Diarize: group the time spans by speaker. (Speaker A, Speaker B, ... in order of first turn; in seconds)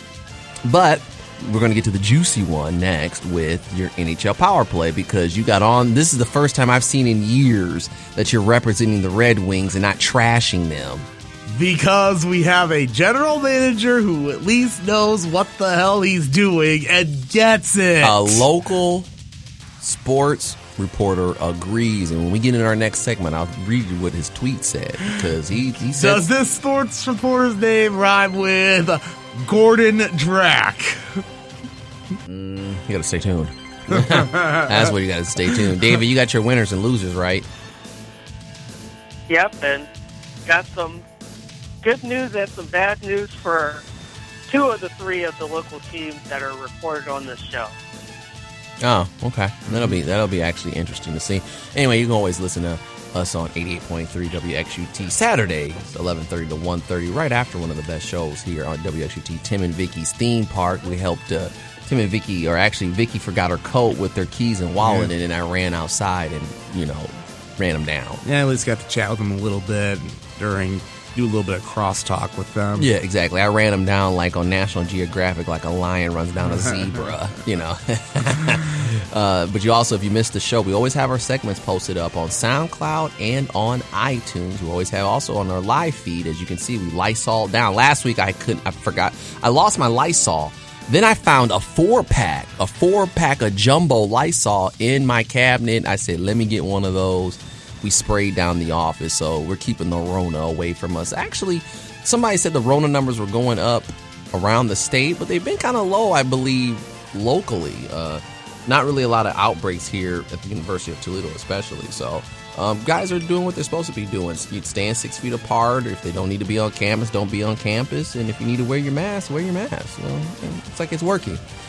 Speaker A: 0.7-11.1, 18.0-19.1, 19.8-26.2, 32.3-37.5, 48.8-68.2, 72.8-121.4
Speaker B: 11.5-18.5, 25.9-31.2, 34.0-34.9, 64.8-65.1, 68.2-72.9
Speaker C: 39.3-39.9, 40.5-41.0, 41.8-43.8, 44.5-47.7